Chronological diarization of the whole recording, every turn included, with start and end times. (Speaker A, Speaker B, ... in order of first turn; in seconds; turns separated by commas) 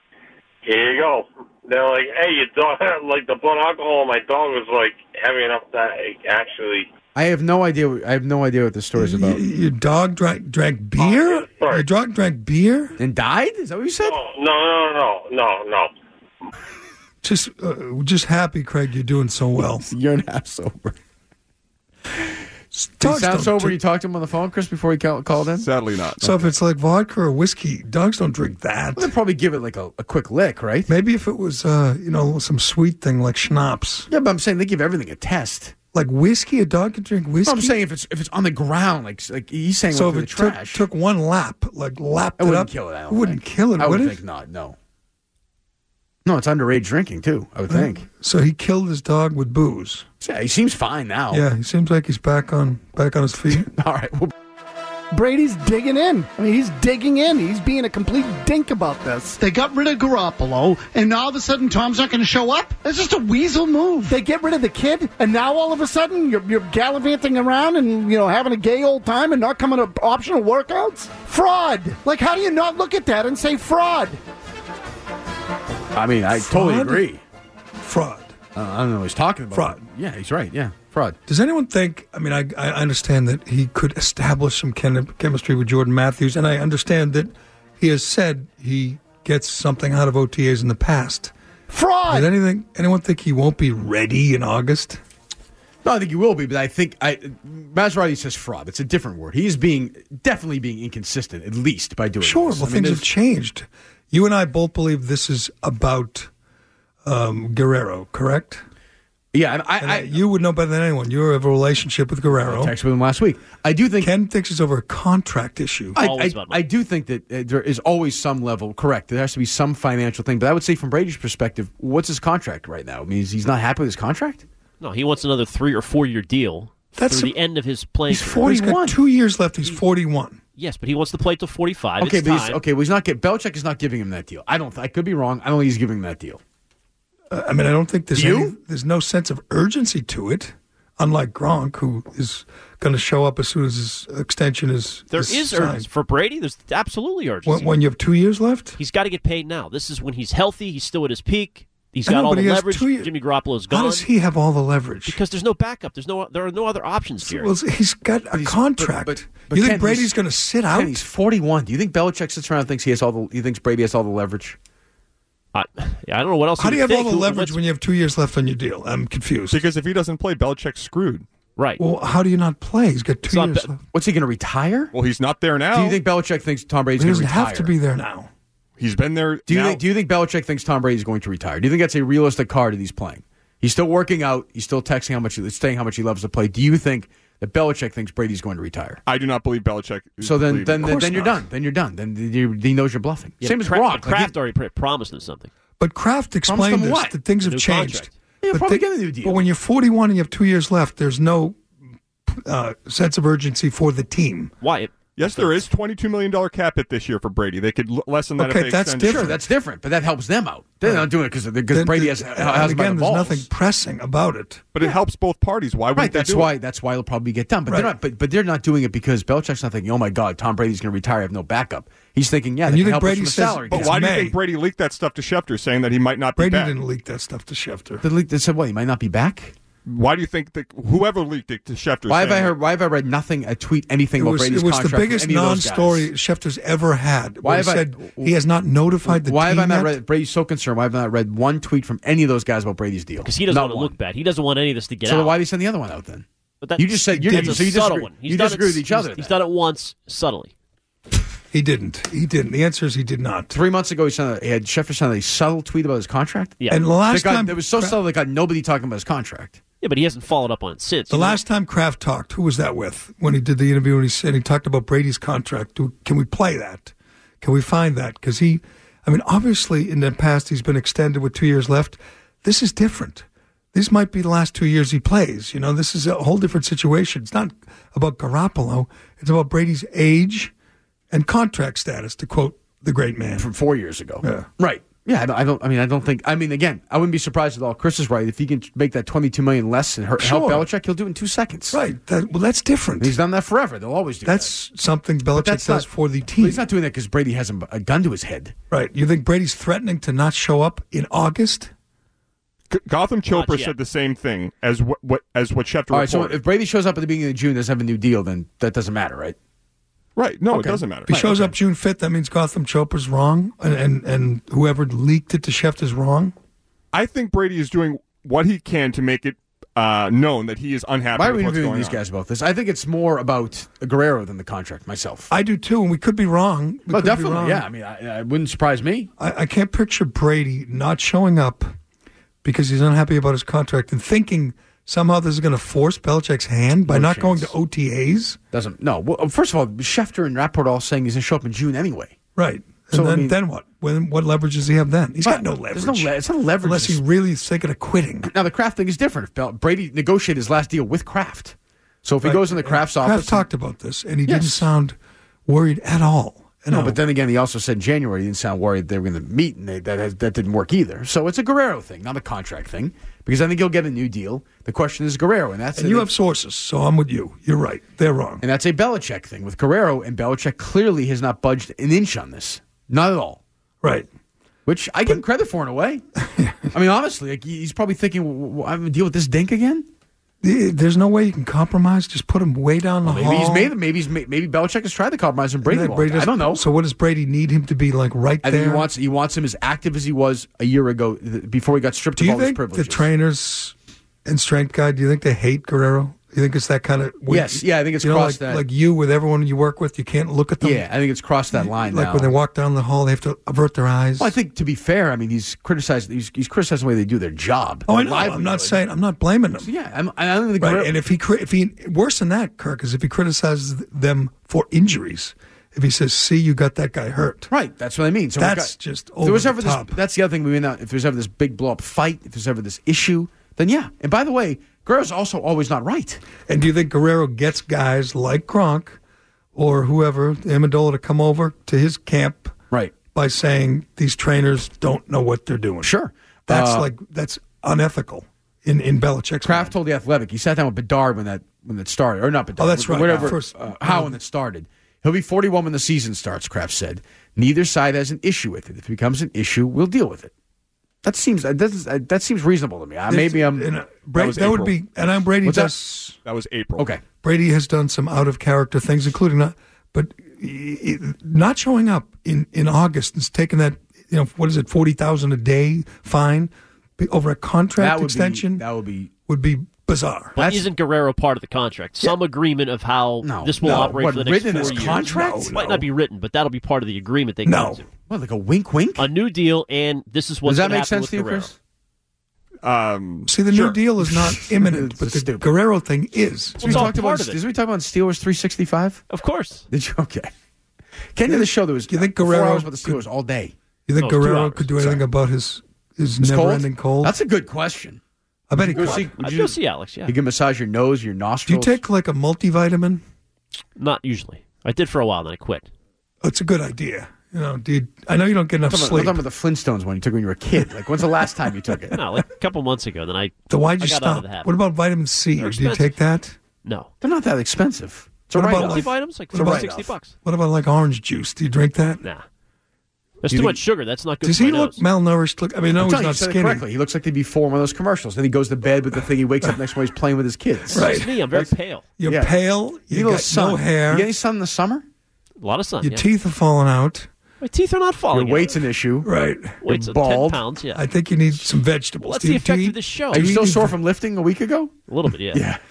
Speaker A: 0.6-6.9, Speaker B: 7.1-9.4, Speaker C: 8.9-13.0, Speaker A: 11.0-11.8, Speaker B: 13.0-14.2, Speaker A: 14.0-15.9, Speaker C: 17.2-19.9, Speaker B: 19.7-21.0, Speaker C: 22.7-23.8, Speaker B: 23.0-25.7, Speaker D: 25.6-26.4, Speaker C: 26.2-29.1, Speaker B: 28.9-30.9, Speaker C: 30.9-34.1, Speaker B: 34.1-35.7, Speaker C: 35.9-37.8, Speaker B: 37.4-40.8, Speaker C: 39.9-44.2, Speaker B: 42.4-44.8, Speaker B: 46.2-48.1, Speaker C: 47.7-50.0, Speaker B: 50.2-51.4, Speaker C: 51.3-53.7, Speaker B: 53.5-54.3, Speaker E: 55.1-74.2, Speaker B: 75.9-77.2, Speaker C: 76.3-77.0, Speaker C: 77.8-78.3, Speaker B: 78.5-81.2, Speaker C: 79.5-79.8, Speaker C: 81.3-91.3, Speaker E: 91.7-92.3, Speaker C: 92.1-95.0, Speaker B: 95.8-103.0, Speaker C: 102.2-106.3, Speaker C: 107.0-108.6, Speaker B: 109.3-110.1, Speaker C: 109.8-112.7, Speaker B: 112.5-114.1, Speaker C: 114.0-116.0, Speaker F: 116.0-116.6, Speaker B: 116.0-124.4, Speaker F: 124.8-128.5, Speaker C: 126.9-127.3, Speaker B: 128.1-129.0, Speaker C: 128.1-130.4, Speaker F: 130.6-132.6, Speaker B: 132.0-136.4, Speaker C: 137.3-145.9, Speaker B: 138.1-138.5, Speaker F: 145.1-147.7, Speaker C: 147.4-148.8, Speaker F: 148.8-154.1, Speaker C: 152.1-153.1, Speaker C: 153.7-155.2, Speaker F: 155.1-157.5, Speaker C: 157.2-161.0, Speaker B: 158.3-160.1, Speaker B: 160.7-164.6, Speaker F: 165.5-167.6, Speaker C: 166.6-169.6, Speaker D: 169.5-171.2, Speaker F: 171.6-171.8, Speaker C: 171.8-173.8, Speaker F: 173.3-173.7, Speaker B: 173.9-174.9, Speaker D: 174.9-176.0, Speaker B: 175.7-177.7, Speaker C: 176.9-178.3, Speaker D: 178.8-179.8, Speaker B: 179.4-189.0, Speaker D: 189.1-191.1, Speaker B: 190.2-194.3, Speaker C: 190.8-191.4, Speaker F: 193.4-195.5, Speaker C: 195.8-201.6, Speaker B: 196.4-197.2, Speaker F: 197.4-198.1, Speaker B: 198.4-199.4, Speaker C: 202.3-204.5, Speaker F: 204.6-205.6, Speaker D: 205.2-209.4, Speaker C: 208.4-209.4, Speaker B: 209.0-213.5, Speaker C: 211.7-214.7, Speaker D: 214.7-216.5, Speaker B: 215.9-223.9, Speaker C: 217.7-217.9, Speaker C: 222.6-224.3, Speaker D: 223.7-226.7, Speaker C: 226.4-228.0, Speaker B: 228.0-229.5, Speaker D: 229.8-232.6, Speaker B: 232.1-236.1, Speaker C: 234.2-240.0, Speaker B: 237.4-238.3, Speaker B: 239.1-243.9, Speaker F: 243.2-245.3, Speaker B: 245.0-246.2, Speaker F: 246.6-250.5, Speaker B: 246.8-249.3, Speaker C: 247.1-247.8, Speaker C: 251.5-253.6, Speaker B: 253.5-259.6, Speaker C: 256.7-258.0, Speaker F: 259.8-261.4, Speaker C: 261.1-280.5, Speaker C: 281.1-283.5, Speaker B: 283.4-291.8, Speaker C: 284.2-284.5, Speaker C: 290.2-290.7, Speaker C: 291.7-293.1, Speaker B: 293.0-294.5, Speaker C: 294.2-296.6, Speaker B: 295.3-298.5, Speaker C: 298.7-301.7, Speaker D: 302.7-306.4, Speaker F: 303.3-303.8, Speaker B: 305.9-309.4, Speaker D: 310.1-311.2, Speaker B: 310.5-311.5, Speaker C: 311.1-316.3, Speaker D: 316.9-322.0, Speaker B: 321.1-325.3, Speaker C: 325.3-327.6, Speaker B: 326.9-329.1, Speaker C: 329.2-331.7, Speaker C: 332.4-338.4, Speaker B: 336.9-337.5, Speaker B: 338.5-342.2, Speaker C: 342.4-348.3, Speaker B: 342.9-343.3, Speaker B: 345.2-347.0, Speaker B: 348.2-353.4, Speaker C: 352.2-357.0, Speaker B: 354.3-354.7, Speaker B: 356.7-366.1, Speaker C: 365.8-368.4, Speaker B: 368.4-373.4, Speaker C: 373.8-374.1, Speaker B: 374.6-376.0, Speaker C: 376.2-376.7, Speaker B: 376.7-379.9, Speaker C: 380.4-383.7, Speaker B: 383.0-386.6, Speaker C: 385.6-388.9, Speaker B: 388.4-393.1, Speaker C: 392.1-400.9, Speaker B: 397.3-398.6, Speaker B: 400.6-402.3, Speaker C: 401.5-404.3, Speaker B: 404.2-408.8, Speaker C: 407.9-409.7, Speaker B: 409.6-411.0, Speaker C: 410.6-417.5, Speaker B: 417.5-426.2, Speaker C: 418.4-420.0, Speaker C: 426.5-429.0, Speaker C: 429.5-432.6, Speaker C: 433.1-435.9, Speaker B: 435.8-436.9, Speaker C: 436.5-439.7, Speaker B: 439.4-450.3, Speaker C: 442.6-444.2, Speaker B: 451.0-453.7, Speaker C: 453.1-456.1, Speaker D: 454.2-454.7, Speaker B: 455.4-455.7, Speaker D: 456.2-456.9, Speaker C: 457.2-468.6, Speaker B: 467.8-469.1, Speaker C: 469.3-470.4, Speaker F: 470.4-477.9, Speaker B: 470.4-470.7, Speaker B: 473.2-475.9, Speaker C: 473.6-473.9, Speaker C: 474.5-475.5, Speaker C: 477.4-477.8, Speaker B: 478.1-479.1, Speaker F: 479.0-481.5, Speaker B: 480.4-481.5, Speaker D: 482.6-483.8, Speaker C: 483.3-486.9, Speaker B: 484.0-485.5, Speaker B: 486.6-489.0, Speaker F: 486.6-487.4, Speaker F: 489.1-489.7, Speaker B: 489.7-490.3, Speaker B: 491.1-493.5, Speaker C: 491.2-493.1, Speaker C: 493.9-497.1, Speaker F: 494.0-494.7, Speaker B: 496.2-498.0, Speaker C: 498.5-499.1, Speaker B: 498.6-501.8, Speaker F: 498.8-500.1, Speaker C: 501.4-503.0, Speaker F: 503.8-505.7, Speaker C: 506.2-509.2, Speaker B: 508.7-512.0, Speaker F: 511.9-514.5, Speaker C: 513.5-516.4, Speaker F: 515.4-516.0, Speaker F: 516.6-516.9, Speaker B: 517.0-519.9, Speaker C: 518.3-522.0, Speaker F: 518.4-520.1, Speaker F: 523.2-524.8, Speaker B: 523.3-523.6, Speaker C: 524.2-526.6, Speaker B: 525.8-532.4, Speaker C: 530.7-531.1, Speaker F: 530.7-531.9, Speaker C: 532.0-534.1, Speaker B: 532.9-534.8, Speaker F: 535.4-536.0, Speaker C: 535.8-537.1, Speaker F: 537.4-538.6, Speaker B: 538.1-539.1, Speaker C: 539.0-539.6, Speaker F: 539.6-540.8, Speaker B: 539.6-540.4, Speaker C: 540.7-543.8, Speaker F: 542.0-543.4, Speaker B: 543.1-544.7, Speaker F: 544.9-545.4, Speaker B: 545.3-545.6